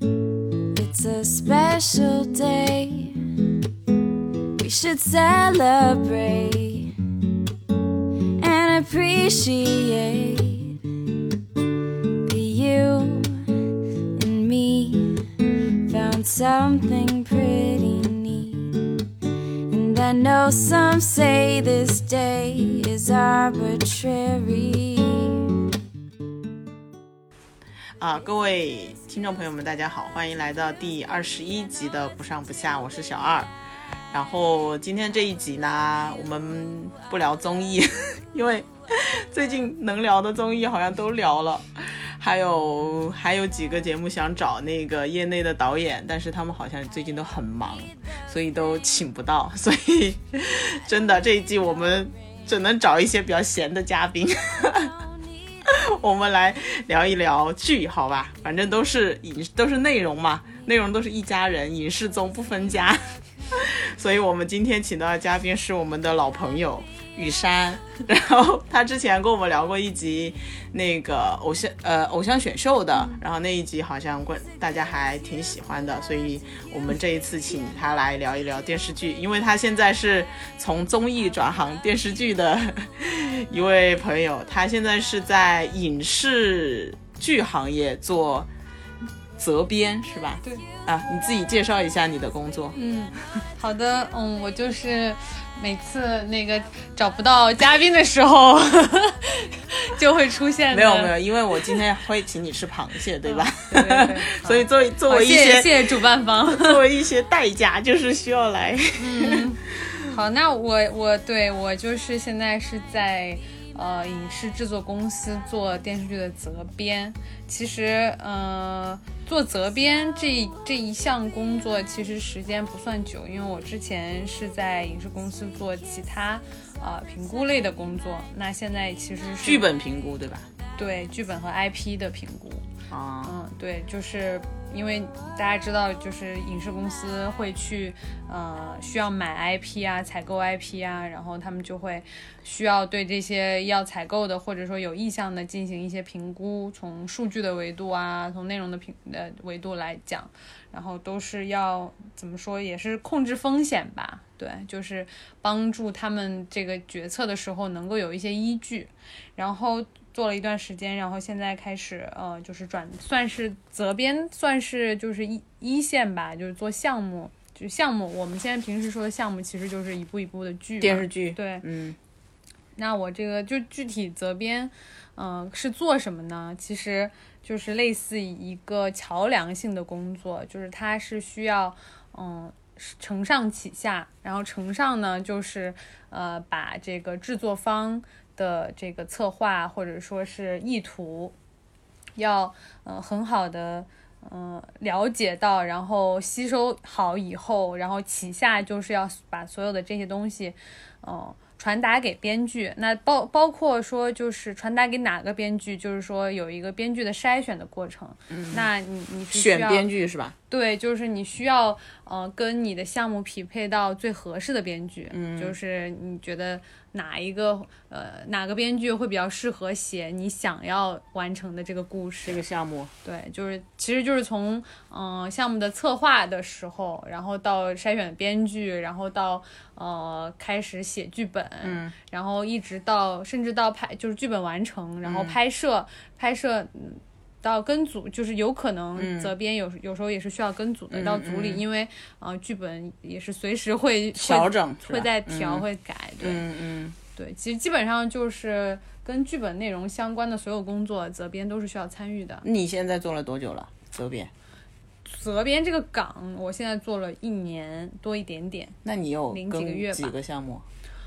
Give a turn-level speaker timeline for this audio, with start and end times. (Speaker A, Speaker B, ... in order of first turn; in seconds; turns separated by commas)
Speaker A: 0.7-3.2, Speaker A: 4.6-6.9, Speaker A: 8.4-10.8, Speaker A: 12.2-15.2, Speaker A: 15.8-18.9, Speaker A: 19.7-25.6, Speaker B: 28.0-33.5, Speaker B: 34.1-54.9, Speaker B: 55.6-63.0, Speaker B: 63.5-88.5, Speaker B: 89.4-92.8, Speaker C: 92.7-101.1, Speaker B: 100.7-110.1, Speaker C: 103.2-106.8, Speaker C: 109.0-129.7, Speaker B: 129.4-130.5, Speaker C: 130.8-132.7, Speaker B: 132.9-133.4, Speaker C: 133.2-171.7, Speaker B: 170.8-172.0, Speaker C: 172.8-191.3, Speaker C: 192.2-209.9, Speaker B: 208.3-208.7, Speaker B: 209.3-210.3, Speaker C: 210.5-222.4, Speaker B: 215.1-215.6, Speaker B: 222.2-222.9, Speaker C: 223.0-246.4, Speaker B: 231.6-231.9, Speaker B: 235.0-235.4, Speaker B: 239.0-239.3, Speaker B: 240.9-241.6, Speaker B: 244.1-245.6, Speaker B: 246.2-246.9, Speaker C: 247.2-252.4, Speaker B: 252.4-254.3, Speaker C: 255.1-258.8, Speaker B: 258.8-260.6, Speaker C: 259.3-260.1